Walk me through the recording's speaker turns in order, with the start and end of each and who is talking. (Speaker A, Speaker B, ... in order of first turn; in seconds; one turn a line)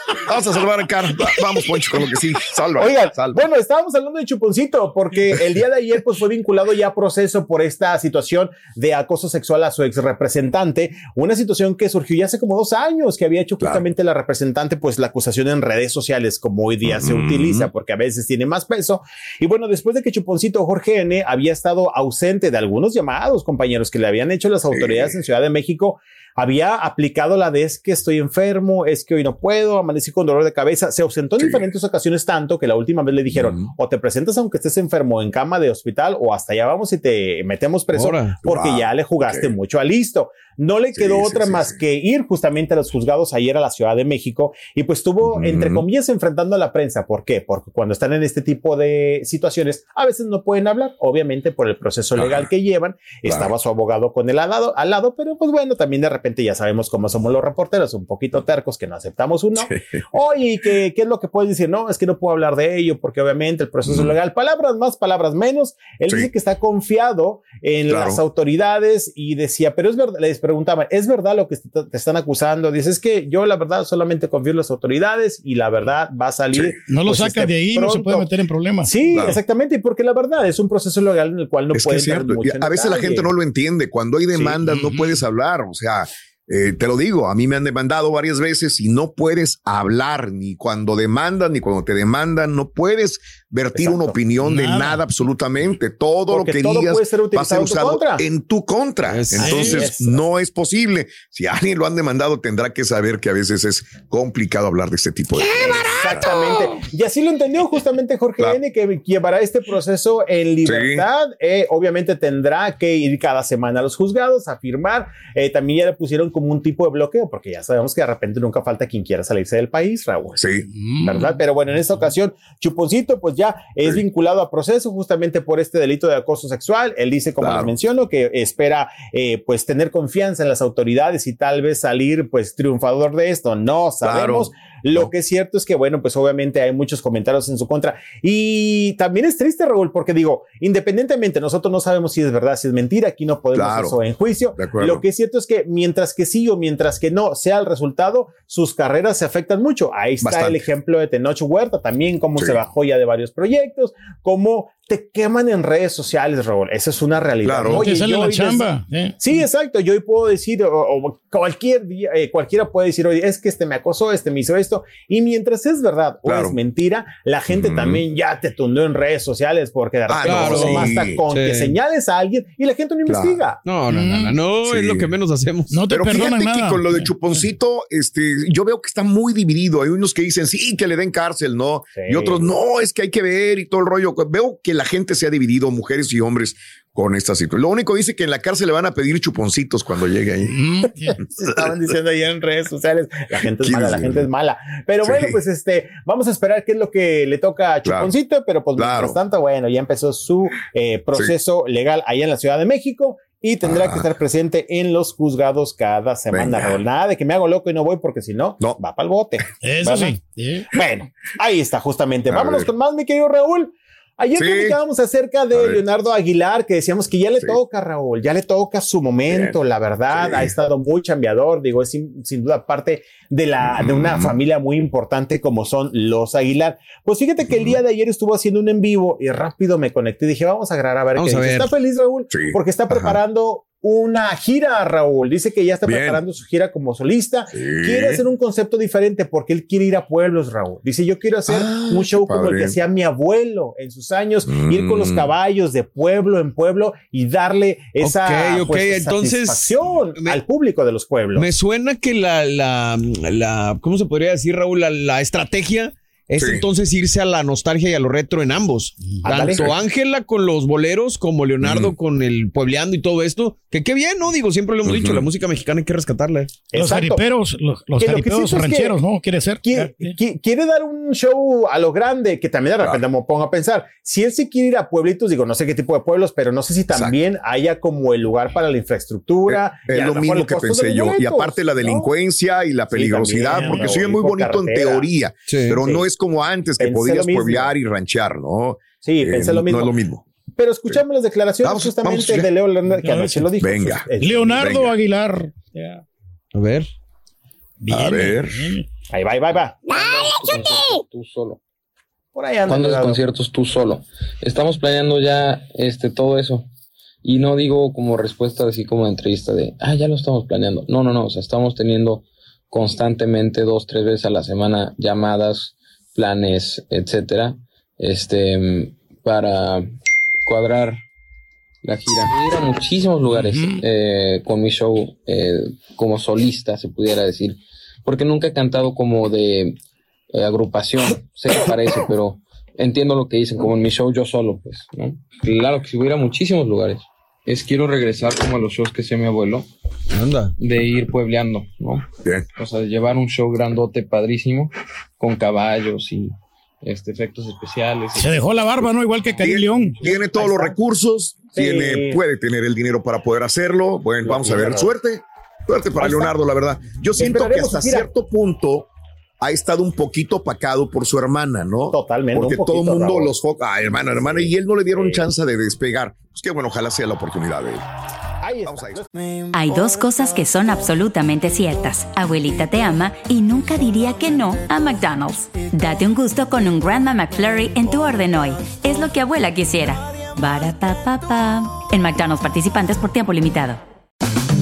Speaker A: 0.2-3.4
Speaker B: 2.8-78.3
Speaker A: 16.9-17.7
Speaker A: 24.7-25.2
Speaker A: 31.4-31.7
Speaker A: 33.3-33.7
Speaker C: 37.9-38.4
Speaker A: 38.5-39.5
Speaker A: 41.0-41.8
Speaker A: 45.2-45.8
Speaker A: 52.2-52.5
Speaker A: 53.3-53.5
Speaker A: 63.9-64.1
Speaker A: 67.9-68.2
Speaker D: 76.9-78.9
Speaker B: 78.8-83.3
Speaker A: 79.1-79.4
Speaker A: 81.7-106.5
Speaker D: 84.6-85.2
Speaker B: 93.7-94.2
Speaker D: 94.5-95.0
Speaker B: 96.3-98.2
Speaker C: 99.1-99.5
Speaker B: 99.3-100.2
Speaker D: 99.4-99.8
Speaker B: 105.5-120.4
Speaker A: 110.7-111.1
Speaker A: 120.4-120.7
Speaker D: 120.8-121.3
Speaker B: 121.0-158.7
Speaker A: 127.4-127.7
Speaker A: 134.0-135.1
Speaker A: 143.6-144.0
Speaker A: 144.6-145.0
Speaker A: 150.2-150.7
Speaker A: 157.4-157.8
Speaker D: 157.7-159.2
Speaker B: 159.2-173.6
Speaker A: 166.2-166.6
Speaker A: 167.5-168.0
Speaker A: 170.1-171.2
Speaker C: 170.2-171.8
Speaker A: 173.1-173.4
Speaker C: 173.6-175.7
Speaker D: 173.9-174.4
Speaker A: 174.7-175.1
Speaker D: 175.7-177.1
Speaker A: 175.9-190.6
Speaker B: 182.0-182.5
Speaker D: 190.5-191.2
Speaker B: 191.4-210.2
Speaker A: 191.4-191.7
Speaker A: 193.3-194.3
Speaker A: 195.0-195.4
Speaker A: 197.8-198.1
Speaker A: 198.8-199.2
Speaker A: 203.6-204.1
Speaker A: 206.3-206.8
Speaker D: 209.6-210.7
Speaker B: 210.7-251.5
Speaker A: 212.3-212.7
Speaker A: 214.4-214.8
Speaker A: 215.5-215.8
Speaker A: 219.3-219.6
Speaker A: 220.1-220.5
Speaker A: 223.6-224.4
Speaker A: 227.5-227.8
Speaker C: 231.2-231.7
Speaker A: 232.3-233.2
Speaker A: 235.8-236.2
Speaker A: 237.5-238.2
Speaker A: 241.5-242.8
Speaker A: 244.5-245.3
Speaker C: 248.0-250.4
Speaker C: 251.3-266.7
Speaker A: 256.4-256.6
Speaker B: 259.2-259.6
Speaker A: 261.6-261.9
Speaker A: 264.9-265.3
Speaker B: 266.7-267.2
Speaker D: 266.7-270.1
Speaker B: 268.0-269.0
Speaker B: 269.6-282.1
Speaker A: 279.5-290.2
Speaker B: 282.9-285.1
Speaker D: 283.5-283.9
Speaker C: 285.5-285.8
Speaker B: 286.8-287.8
Speaker B: 289.0-289.9
Speaker B: 290.6-294.7
Speaker A: 291.6-292.5
Speaker D: 292.9-293.5
Speaker A: 293.6-294.9
Speaker D: 294.2-296.0
Speaker C: 296.5-296.9
Speaker D: 297.8-298.9
Speaker A: 297.9-298.6
Speaker B: 299.1-299.9
Speaker E: 299.9-301.6
Speaker B: 302.4-303.2
Speaker E: 302.7-306.7
Speaker E: 307.2-319.9
Speaker E: 320.5-321.0
Speaker E: 321.8-329.8
Speaker D: 323.3-323.8
Speaker E: 330.3-339.7
Speaker C: 340.1-340.5
Speaker E: 340.6-348.5
Speaker D: 348.2-349.9
Speaker E: 349.3-349.8
Speaker A: 349.4-358.9
Speaker B: 350.3-350.8
Speaker B: 351.5-352.2
Speaker B: 354.2-354.9
Speaker B: 356.0-356.3
Speaker B: 357.2-358.1
Speaker A: 359.4-367.8
Speaker B: 361.9-363.3
Speaker B: 364.2-365.3
Speaker B: 368.4-369.1
Speaker A: 368.7-369.0
Speaker F: 369.5-383.8